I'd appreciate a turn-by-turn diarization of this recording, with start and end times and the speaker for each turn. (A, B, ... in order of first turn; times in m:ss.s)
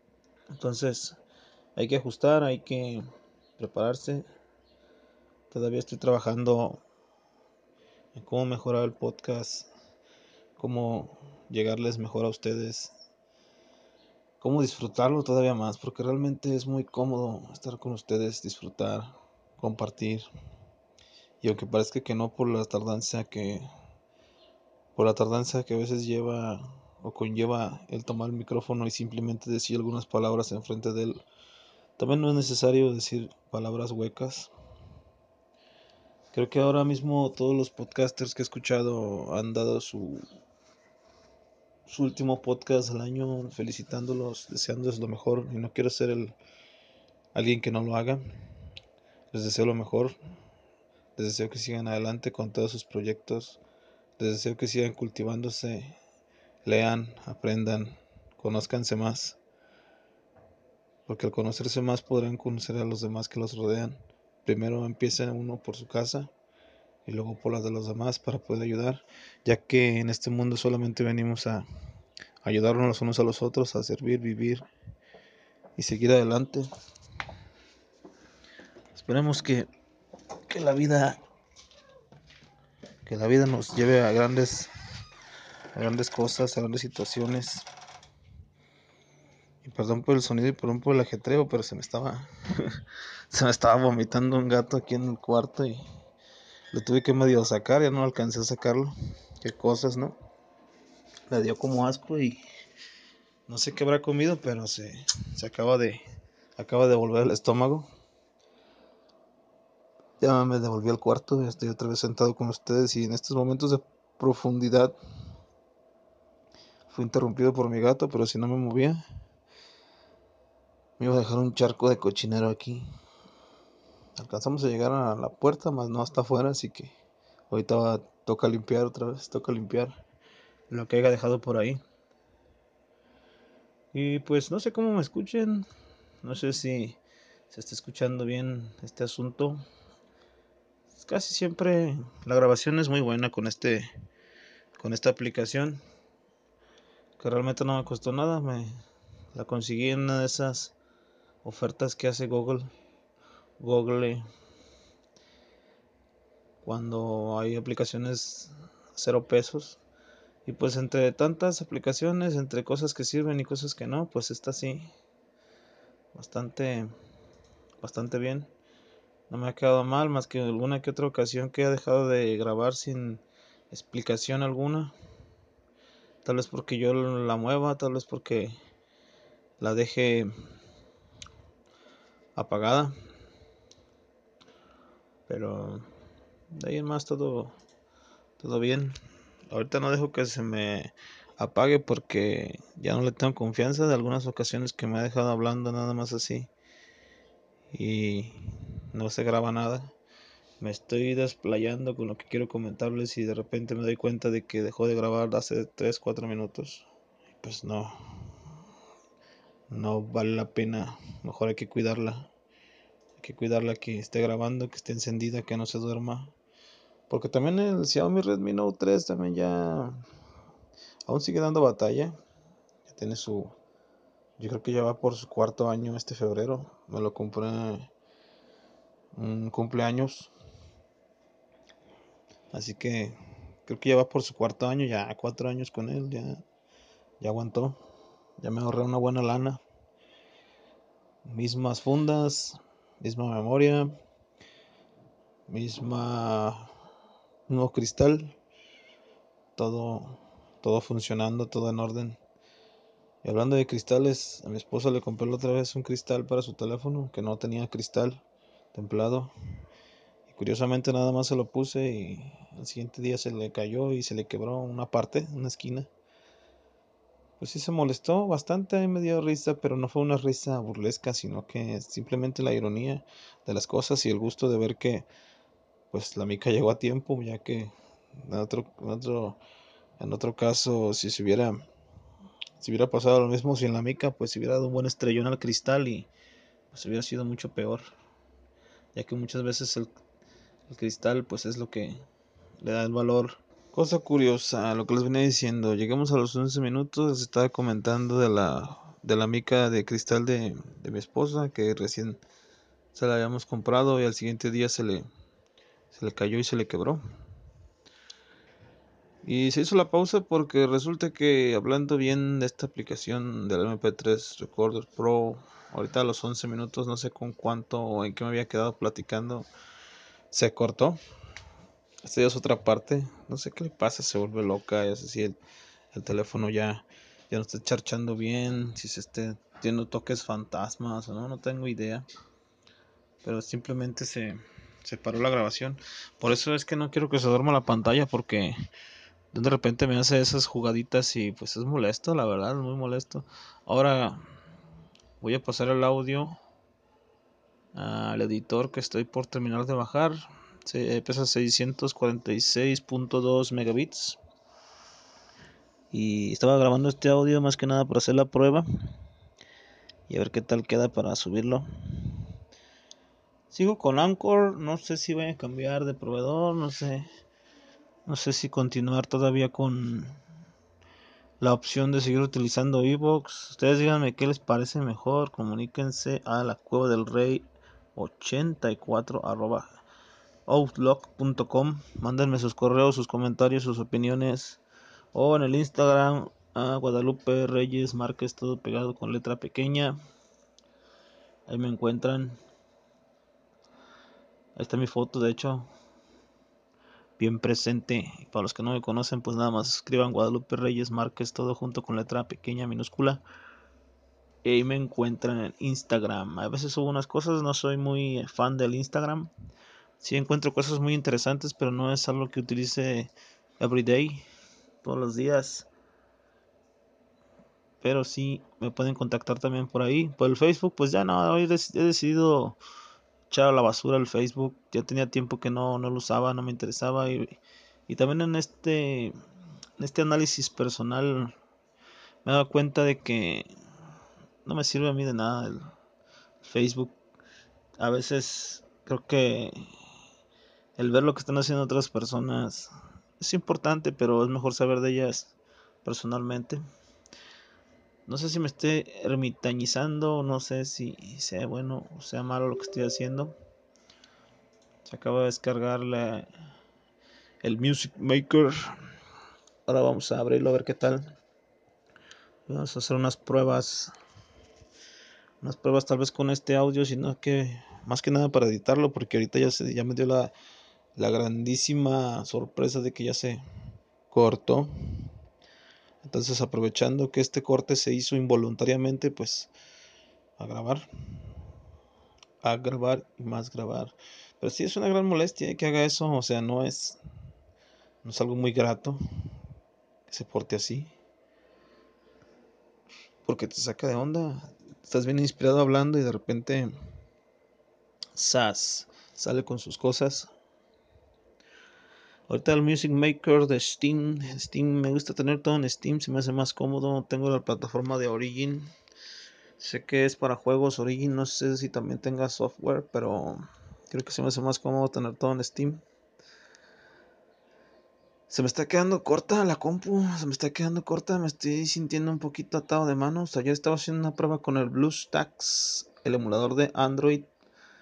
0:00.5-0:01.2 A
0:01.8-0:03.0 A
0:03.6-0:04.2 A
0:05.5-0:06.8 A
0:08.1-0:09.7 A
0:10.6-0:13.0 A
0:14.4-0:20.3 A
0:21.4-0:23.7 A
0:25.0-0:31.2 A
0:32.0-0:34.5 A
0:36.3-0:40.2 A
0:41.9-0:46.4 A
0:47.3-0:48.2 A
0:49.3-0:50.2 A
0:51.2-0:53.6 A
0:54.2-0:56.0 A
0:56.6-0:59.4 A
1:01.1-1:06.3 A
1:07.1-1:11.7 A
1:12.4-1:14.6 A
1:15.8-1:16.7 A
1:18.9-1:19.7 A
1:20.5-1:21.2 A
1:23.0-1:24.7 A
1:25.7-1:27.7 A
1:29.6-1:35.8 A
1:36.7-1:40.2 A
1:41.3-1:42.4 A
1:43.5-1:46.0 A
1:46.6-1:47.9 A
1:50.2-1:55.0 A
1:56.9-1:59.0 A
2:01.0-2:02.8 A
2:04.2-2:06.9 A
2:07.5-2:09.9 A
2:10.7-2:11.8 A
2:13.9-2:15.7 A
2:16.2-2:17.0 A
2:17.5-2:19.6 A
2:20.9-2:23.9 A
2:24.8-2:25.8 A
2:27.2-2:28.7 A
2:29.3-2:30.8 A
2:31.4-2:32.7 A
2:33.6-2:34.2 A
2:36.6-2:39.8 A
2:40.4-2:44.9 A
2:46.1-2:46.9 A
2:47.8-2:48.5 A
2:49.3-2:55.0 A
2:56.2-2:58.6 A
2:59.6-3:00.3 A
3:02.4-3:02.9 A
3:05.3-3:05.9 A
3:06.5-3:07.5 A
3:08.4-3:09.0 A
3:09.5-3:16.5 A
3:17.7-3:19.9 A
3:20.6-3:26.9 A
3:27.4-3:28.3 A
3:29.7-3:32.3 A
3:33.2-3:36.3 A
3:37.1-3:40.0 A
3:41.1-3:42.2 A
3:42.9-3:43.5 A
3:44.4-3:47.9 A
3:49.2-3:50.3 A
3:52.5-3:56.4 A
3:57.2-3:57.8 A
3:58.4-3:59.6 A
4:01.2-4:04.0 A
4:05.5-4:06.7 A
4:07.5-4:08.4 A
4:09.6-4:12.2 A
4:13.2-4:19.3 A
4:20.3-4:25.9 A
4:27.4-4:35.1 A
4:35.9-4:39.4 A
4:40.0-4:41.6 A
4:42.6-4:46.1 A
4:46.7-4:47.8 A
4:48.9-4:49.9 A
4:50.7-4:52.0 A
4:52.6-5:02.2 A
5:02.9-5:05.1 A
5:05.9-5:07.0 A
5:09.2-5:19.5 A
5:20.3-5:21.0 A
5:22.0-5:25.4 A
5:25.9-5:32.1 A
5:33.2-5:38.6 A
5:39.3-5:44.3 A
5:45.2-5:46.4 A
5:47.7-5:54.2 A
5:55.9-5:58.7 A
6:00.1-6:02.3 A
6:03.5-6:07.1 A
6:08.0-6:10.2 A
6:11.4-6:19.8 A
6:20.5-6:24.6 A
6:25.1-6:30.0 A
6:31.5-6:32.4 A
6:34.6-6:35.7 A
6:37.2-6:43.2 A
6:44.4-6:49.3 A
6:50.0-6:54.2 A
6:54.8-6:55.7 A
6:57.8-7:02.6 A
7:03.3-7:09.2 A
7:09.8-7:11.3 A
7:12.2-7:13.5 A
7:14.4-7:15.7 A
7:16.4-7:17.0 A
7:17.8-7:19.6 A
7:20.8-7:26.6 A
7:28.1-7:33.4 A
7:34.8-7:36.3 A
7:37.4-7:38.7 A
7:39.7-7:41.1 A
7:42.5-7:43.9 A
7:45.4-7:50.3 A
7:51.0-7:53.4 A
7:54.1-7:55.1 A
7:56.0-7:59.5 A
8:00.4-8:00.9 A
8:02.4-8:07.0 A
8:08.0-8:09.0 A
8:10.1-8:10.9 A
8:13.2-8:16.7 A
8:18.2-8:20.3 A
8:22.3-8:28.7 A
8:29.6-8:35.8 A
8:38.3-8:47.3 A